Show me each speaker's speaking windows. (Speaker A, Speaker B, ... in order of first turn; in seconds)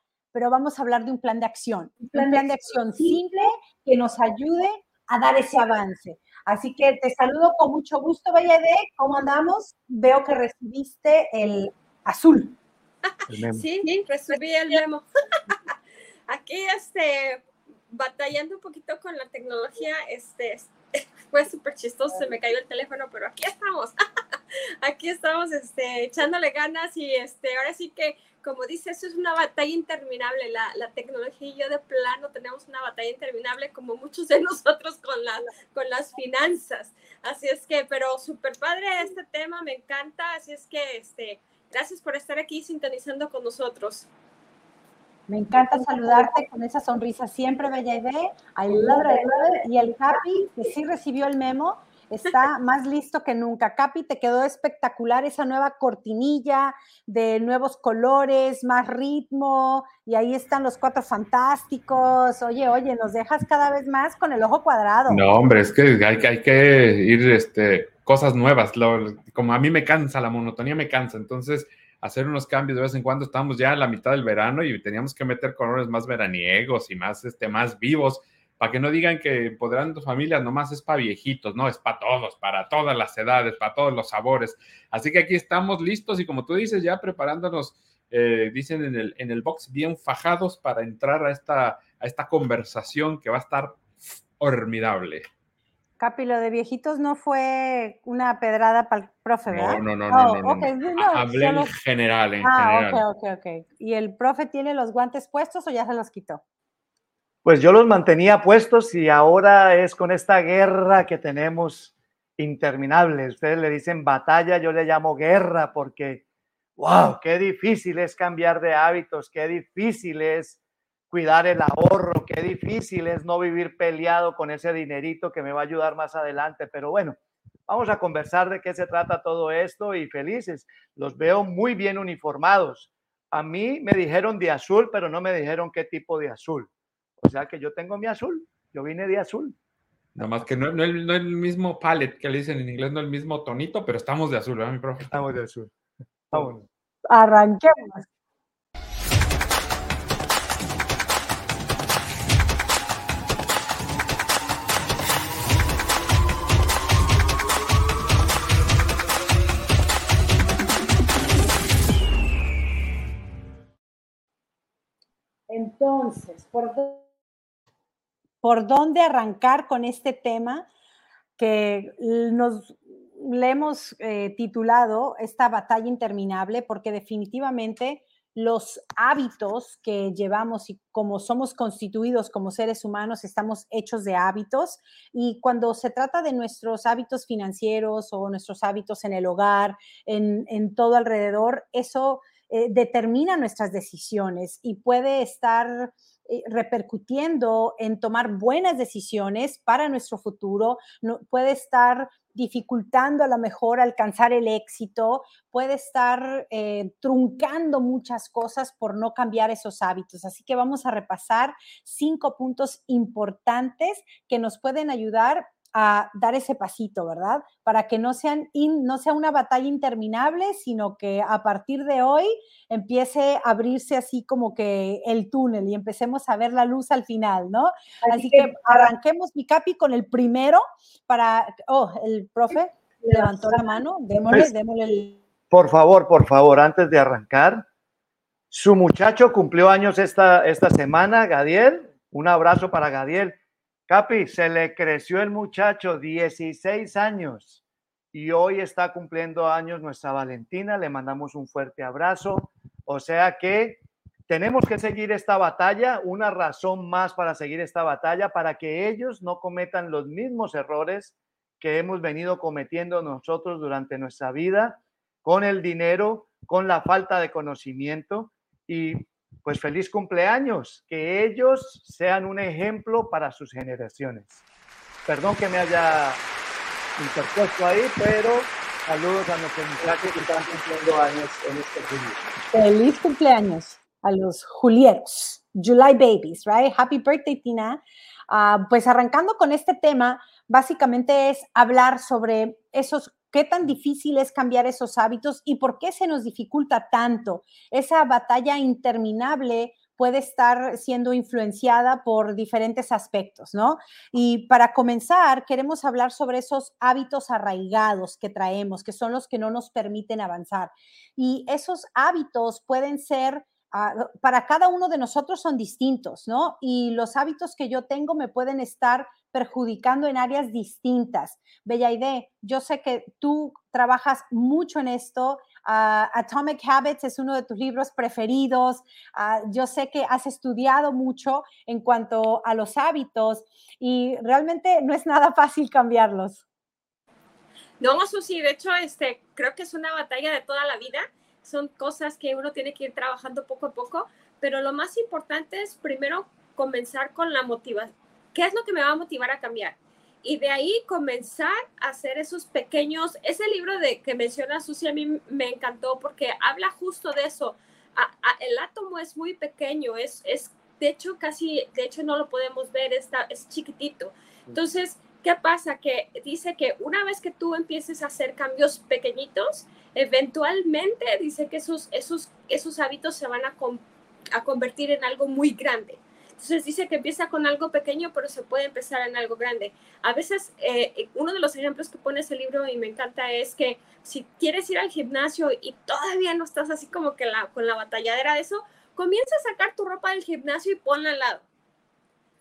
Speaker A: 0.3-12.6, 45.3-65.3, 96.0-101.7, 102.4-106.4, 147.1-148.1, 165.5-167.1, 168.4-170.7, 171.4-235.2, 282.5-336.4
Speaker B: 13.3-13.7, 107.5-116.2, 116.8-120.6, 121.1-136.7, 137.2-139.6, 145.1-145.7, 146.3-146.7, 235.5-237.7, 238.5-243.4, 243.9-247.6, 248.1-274.4, 275.1-276.2, 277.0-282.3
Speaker C: 13.5-15.6, 16.3-24.0, 24.8-44.1, 337.8-391.4
Speaker D: 65.1-95.3, 99.5-103.0, 140.2-145.1